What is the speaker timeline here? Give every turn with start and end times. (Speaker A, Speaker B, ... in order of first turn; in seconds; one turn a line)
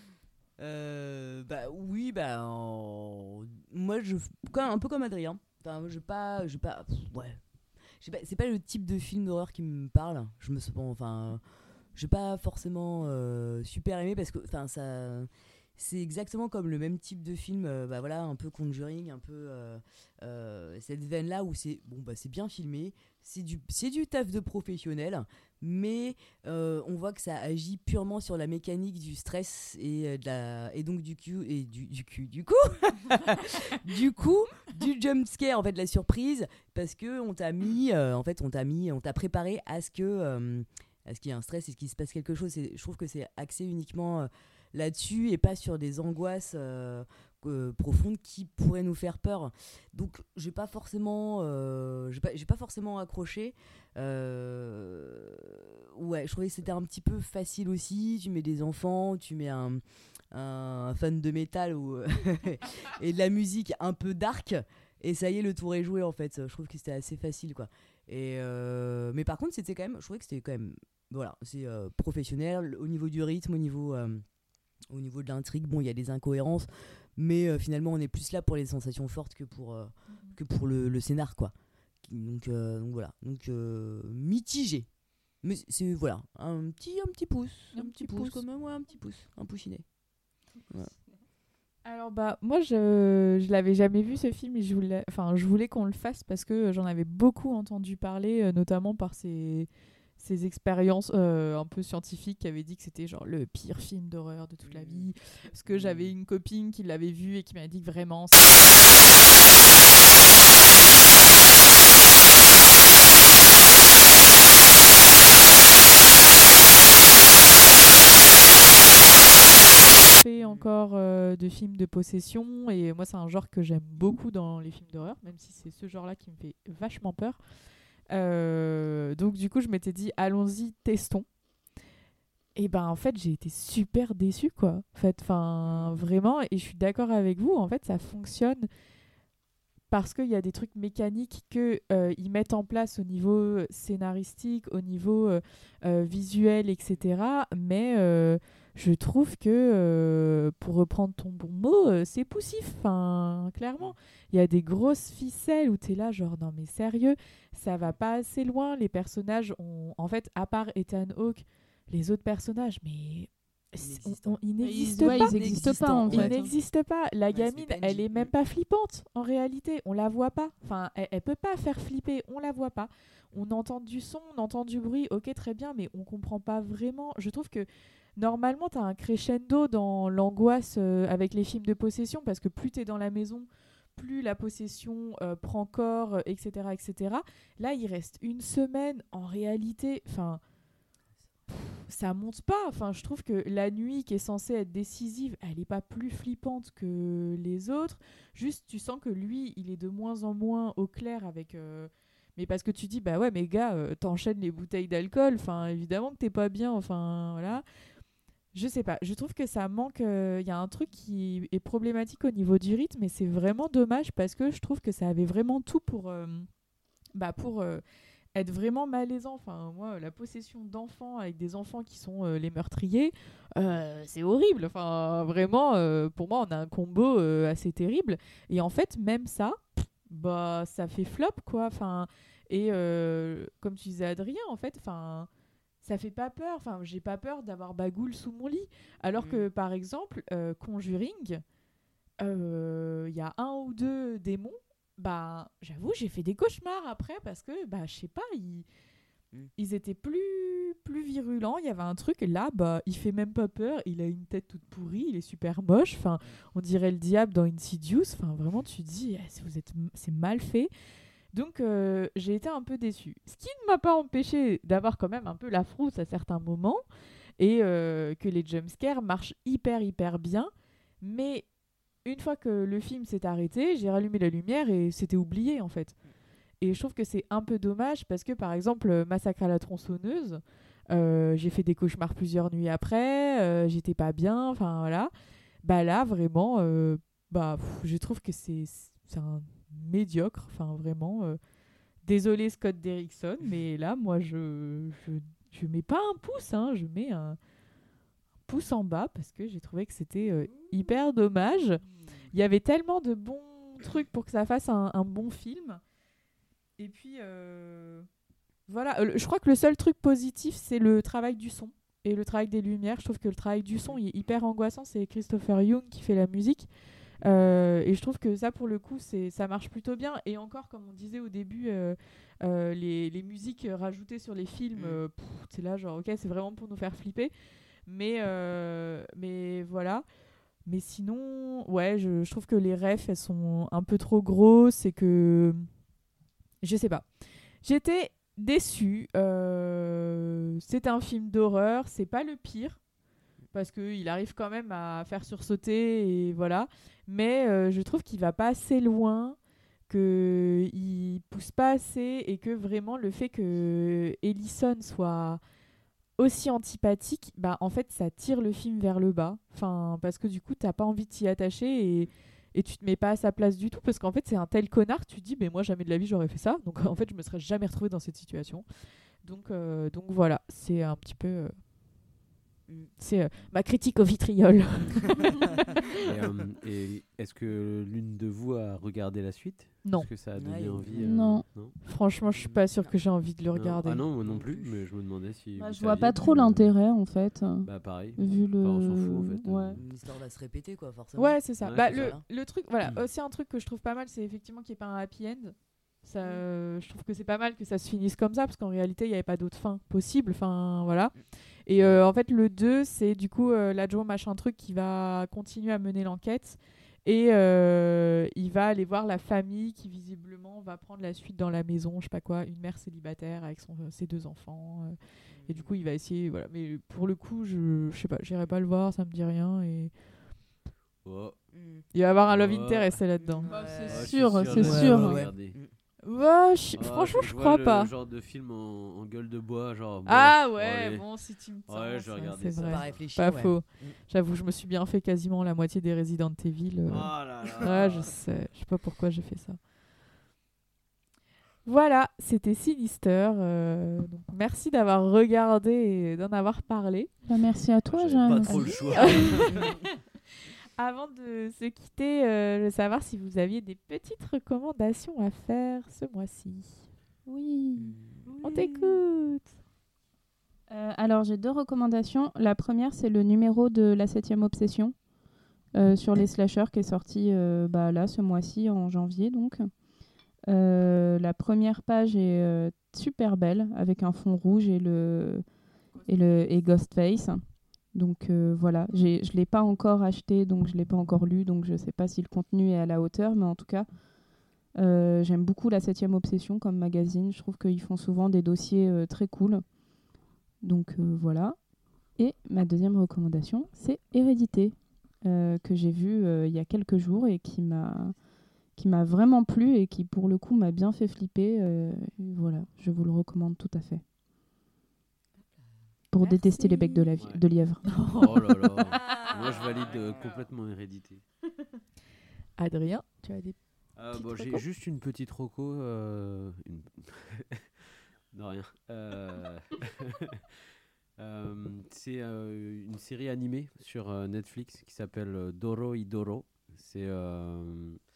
Speaker A: 0.6-7.4
Speaker A: 8.0-11.4
Speaker A: 11.9-74.2
Speaker A: 74.9-81.5
Speaker B: 80.1-80.4
Speaker A: 82.0-84.9
Speaker A: 85.4-89.8
Speaker B: 87.7-88.4
Speaker B: 91.8-116.0
Speaker A: 104.6-105.1
Speaker A: 105.7-106.1
Speaker A: 110.8-111.1
Speaker A: 113.1-113.7
Speaker A: 114.8-118.6
Speaker B: 116.8-127.4
Speaker A: 120.4-120.7
Speaker B: 128.1-131.2
Speaker B: 132.6-138.7
Speaker A: 135.6-135.9
Speaker B: 139.9-190.4
Speaker A: 163.8-166.5
Speaker C: 164.6-166.5
Speaker A: 167.3-168.3
Speaker B: 191.5-207.6
Speaker B: 208.5-216.5
Speaker B: 217.1-217.8
Speaker B: 218.3-235.3
Speaker B: 235.8-241.4
Speaker A: 239.2-239.4
Speaker B: 242.2-248.7
Speaker B: 249.6-260.7
Speaker B: 261.3-266.8
Speaker B: 267.4-271.5
Speaker B: 272.0-275.9
Speaker B: 276.6-285.1
Speaker B: 285.6-291.4
Speaker B: 292.0-297.4
Speaker B: 298.5-305.8
Speaker B: 306.8-308.1
Speaker B: 308.7-316.7
Speaker B: 317.2-327.3
Speaker A: 324.7-325.0
Speaker B: 327.9-330.0
Speaker B: 330.6-335.7
Speaker B: 336.6-337.1
Speaker B: 337.6-342.8
Speaker B: 343.5-349.4
Speaker B: 349.9-355.4
Speaker B: 356.2-368.6
Speaker B: 369.2-371.5
Speaker B: 373.0-375.4
Speaker D: 376.0-381.7
Speaker A: 380.3-381.1
Speaker C: 381.0-381.4
Speaker B: 381.8-384.0
Speaker A: 382.3-382.9
Speaker D: 383.5-386.7
Speaker A: 384.2-384.7
Speaker C: 385.6-389.8
Speaker D: 387.6-389.8
Speaker A: 389.7-392.2
Speaker B: 391.2-401.1
Speaker D: 391.6-392.1
Speaker B: 401.6-414.9
Speaker A: 415.3-415.7
Speaker B: 415.5-419.9
Speaker D: 421.0-421.4
Speaker A: 421.5-421.8
Speaker B: 421.9-423.5
Speaker D: 422.3-422.9
Speaker A: 423.2-425.7
Speaker C: 423.5-425.2
Speaker D: 423.9-425.6
Speaker B: 426.0-427.9
Speaker D: 426.8-431.0
Speaker B: 430.1-439.6
Speaker D: 431.7-432.9
Speaker A: 432.6-434.0
Speaker D: 436.9-438.1
Speaker B: 441.6-447.1
Speaker C: 447.3-449.3
Speaker D: 447.9-449.6
Speaker B: 448.4-449.9
Speaker B: 450.8-456.8
Speaker C: 457.2-459.0
Speaker A: 457.8-458.3
Speaker B: 458.4-459.5
Speaker C: 460.7-464.9
Speaker C: 465.7-469.7
Speaker C: 470.5-475.4
Speaker C: 476.1-477.4
Speaker C: 477.9-483.9
Speaker C: 484.8-489.6
Speaker C: 490.6-491.6
Speaker C: 492.1-498.1
Speaker C: 498.8-504.0
Speaker C: 506.1-507.8
Speaker B: 506.2-507.1
Speaker D: 507.2-507.4
Speaker B: 507.8-508.4
Speaker D: 508.1-511.2
Speaker A: 509.0-510.4
Speaker B: 512.6-513.6
Speaker D: 514.0-520.5
Speaker B: 514.1-514.6
Speaker D: 521.2-528.0